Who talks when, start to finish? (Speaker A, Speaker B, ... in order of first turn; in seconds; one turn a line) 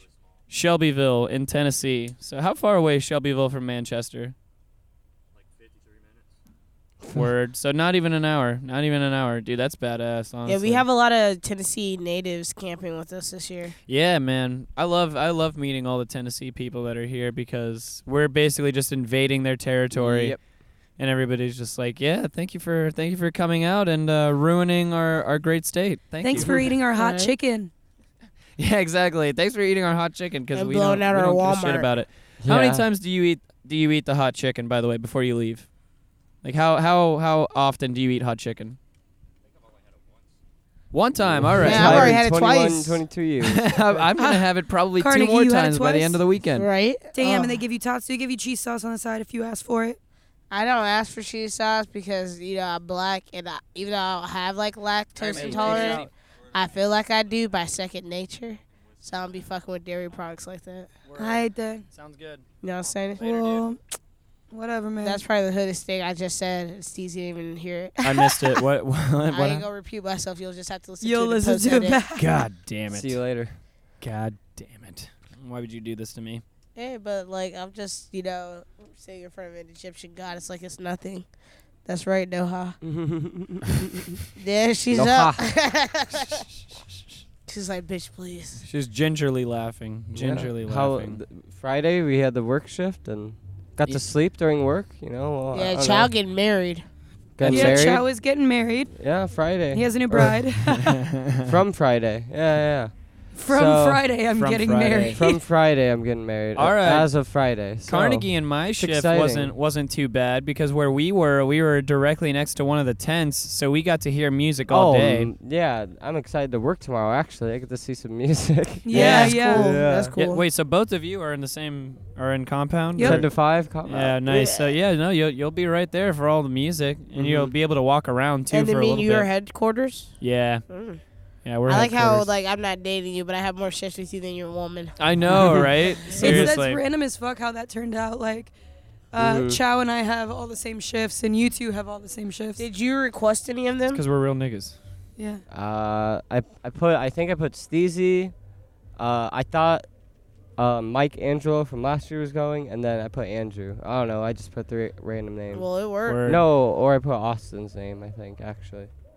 Speaker A: 0.5-4.3
Speaker A: 7.1-10.8
Speaker B: 10.4-13.7
Speaker A: 13.9-20.4
Speaker C: 19.9-20.4
Speaker A: 21.0-26.6
Speaker D: 26.2-27.7
Speaker B: 26.9-27.3
Speaker A: 28.6-35.7
Speaker B: 30.5-31.9
Speaker C: 32.4-32.8
Speaker A: 36.4-38.8
Speaker A: 40.9-42.2
Speaker C: 41.2-44.0
Speaker B: 41.6-43.0
Speaker A: 43.4-46.7
Speaker D: 44.2-44.4
Speaker D: 45.0-46.2
Speaker B: 46.5-47.6
Speaker D: 47.1-50.0
Speaker B: 50.5-60.9
Speaker A: 55.2-56.1
Speaker D: 55.3-56.0
Speaker A: 61.0-62.4
Speaker D: 61.2-61.9
Speaker B: 62.6-63.3
Speaker D: 63.2-63.8
Speaker A: 63.2-63.6
Speaker D: 64.5-65.2
Speaker B: 65.0-68.0
Speaker A: 68.0-69.6
Speaker B: 69.3-72.0
Speaker D: 71.0-72.2
Speaker A: 72.1-73.2
Speaker C: 72.9-73.5
Speaker A: 74.0-76.4
Speaker B: 76.8-81.2
Speaker B: 81.8-82.8
Speaker C: 82.8-84.2
Speaker B: 84.3-86.4
Speaker C: 84.9-85.4
Speaker B: 87.5-88.6
Speaker A: 88.6-91.2
Speaker C: 90.1-96.1
Speaker B: 95.5-96.8
Speaker C: 97.4-98.0
Speaker A: 97.4-97.9
Speaker D: 97.5-98.9
Speaker C: 99.0-100.4
Speaker D: 99.7-101.0
Speaker A: 100.8-101.5
Speaker C: 101.4-104.0
Speaker D: 103.3-105.4
Speaker A: 104.3-105.2
Speaker C: 105.1-109.5
Speaker A: 106.5-107.1
Speaker A: 107.8-115.3
Speaker C: 114.7-120.1
Speaker D: 118.8-119.7
Speaker B: 118.9-120.4
Speaker A: 120.2-123.3
Speaker D: 123.0-123.2
Speaker C: 123.0-124.2
Speaker A: 123.8-129.3
Speaker B: 124.3-124.7
Speaker C: 127.2-127.5
Speaker B: 128.5-130.1
Speaker A: 130.2-130.6
Speaker B: 130.7-131.0
Speaker A: 131.4-132.3
Speaker B: 131.7-136.5
Speaker A: 135.0-136.8
Speaker D: 136.0-138.5
Speaker D: 139.1-142.6
Speaker C: 139.2-139.6
Speaker B: 142.6-144.0
Speaker A: 143.9-144.8
Speaker D: 145.2-145.4
Speaker C: 145.5-148.3
Speaker C: 148.9-149.8
Speaker C: 150.6-155.7
Speaker B: 155.5-156.2
Speaker A: 156.1-156.4
Speaker C: 156.2-158.9